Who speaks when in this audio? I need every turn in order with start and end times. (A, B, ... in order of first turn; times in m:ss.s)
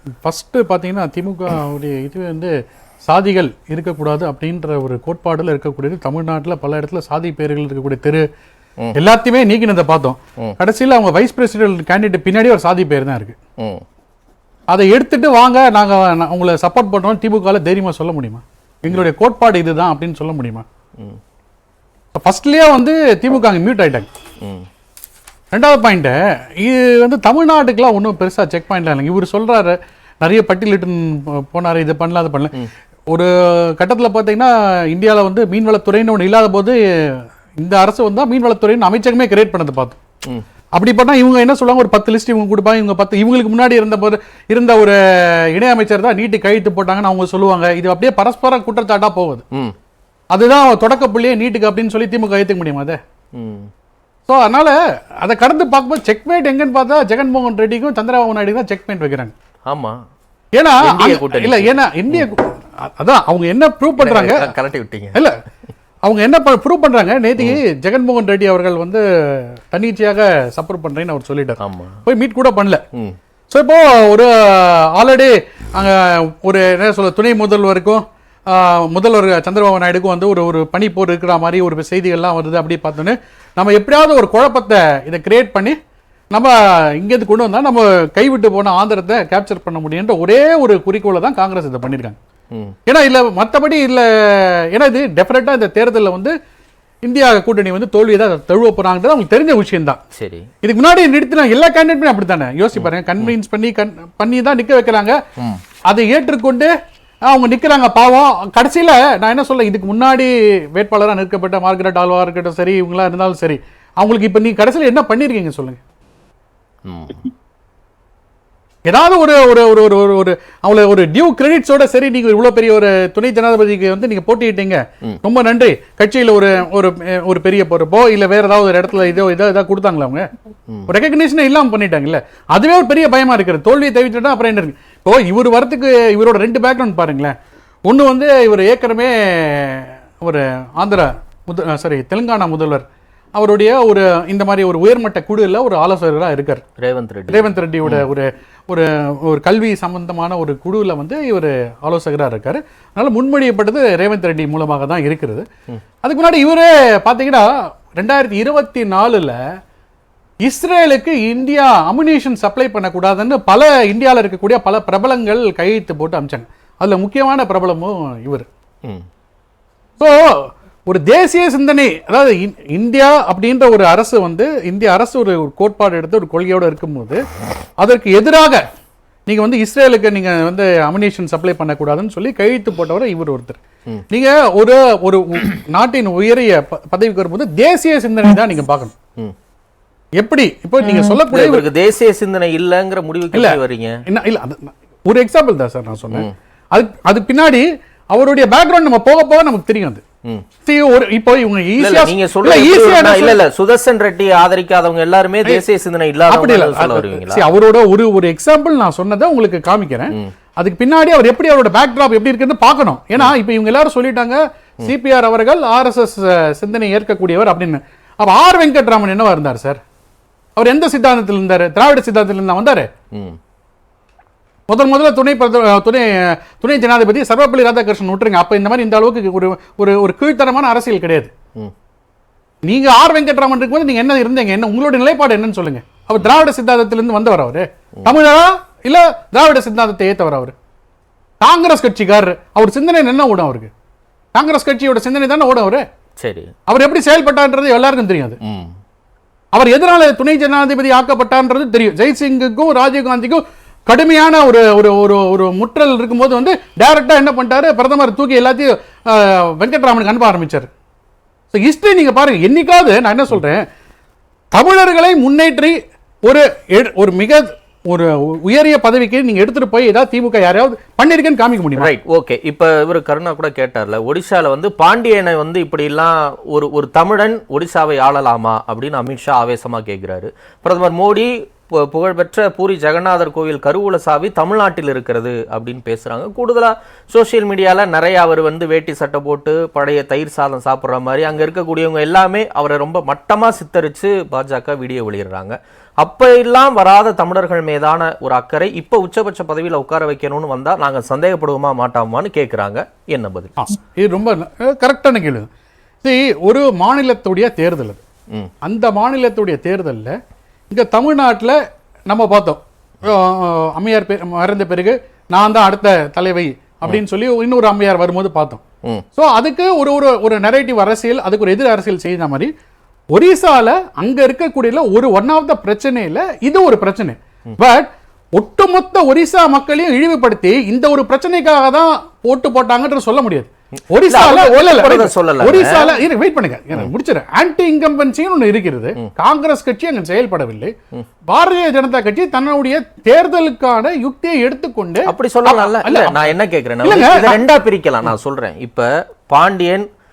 0:00.2-0:02.5 A
0:03.1-0:08.2 A
0:09.0-0:13.4 A
0:14.7-0:20.6 A
0:22.2-0:24.1 A
0:25.5-0:32.5 A
0:33.1-0:40.0 A
0:40.8-0:49.4 A
0:50.3-0:53.0 A
0:53.4-0:53.7 B
0:54.3-0:59.3 A
0:59.7-1:00.0 B
1:00.5-1:04.5 A
1:00.8-1:02.3 B
1:04.0-1:05.2 B
1:06.0-1:12.8 A
1:11.6-1:12.0 B
1:13.5-1:25.8 A
1:26.3-1:32.2 A
1:32.9-1:36.3 A
1:37.0-1:40.0 A
1:40.2-1:40.5 B
1:40.6-1:45.2 A
1:42.7-1:43.3 B
1:45.9-1:46.7 A
1:47.3-1:55.8 A
1:56.9-1:57.2 B
1:58.9-2:10.3 A
2:10.9-2:17.3 A
2:17.9-2:22.8 A
2:23.4-2:26.6 A
2:26.8-2:28.1 B
2:27.3-2:35.4 A
2:36.0-2:39.4 A
2:40.4-2:48.5 A
2:50.0-2:57.2 A
2:57.8-2:58.6 A
2:59.3-3:03.6 A
3:04.1-3:09.0 A
3:10.2-3:11.7 A
3:10.8-3:14.0 B
3:13.3-3:20.0 A
3:20.7-3:23.4 A
3:21.8-3:27.4 B
3:26.3-3:39.8 A
3:40.6-3:42.9 A
3:44.7-3:51.3 A
3:52.7-4:00.5 A
4:01.4-4:03.7 A
4:04.3-4:05.8 A
4:06.2-4:06.5 B
4:06.7-4:08.4 A
4:08.4-4:08.7 B
4:09.5-4:20.7 A
4:21.5-4:23.6 A
4:24.5-4:25.8 A
4:26.3-4:31.9 A
4:31.8-5:03.5 B
5:03.6-5:05.5 A
5:06.0-5:08.0 A
5:08.6-5:10.2 A
5:10.7-5:11.6 A
5:12.1-5:18.6 A
5:19.2-5:22.5 A
5:23.1-5:40.7 A
5:34.0-5:36.0 B
5:41.3-5:46.3 A
5:45.1-5:49.9 B
5:46.8-5:47.4 A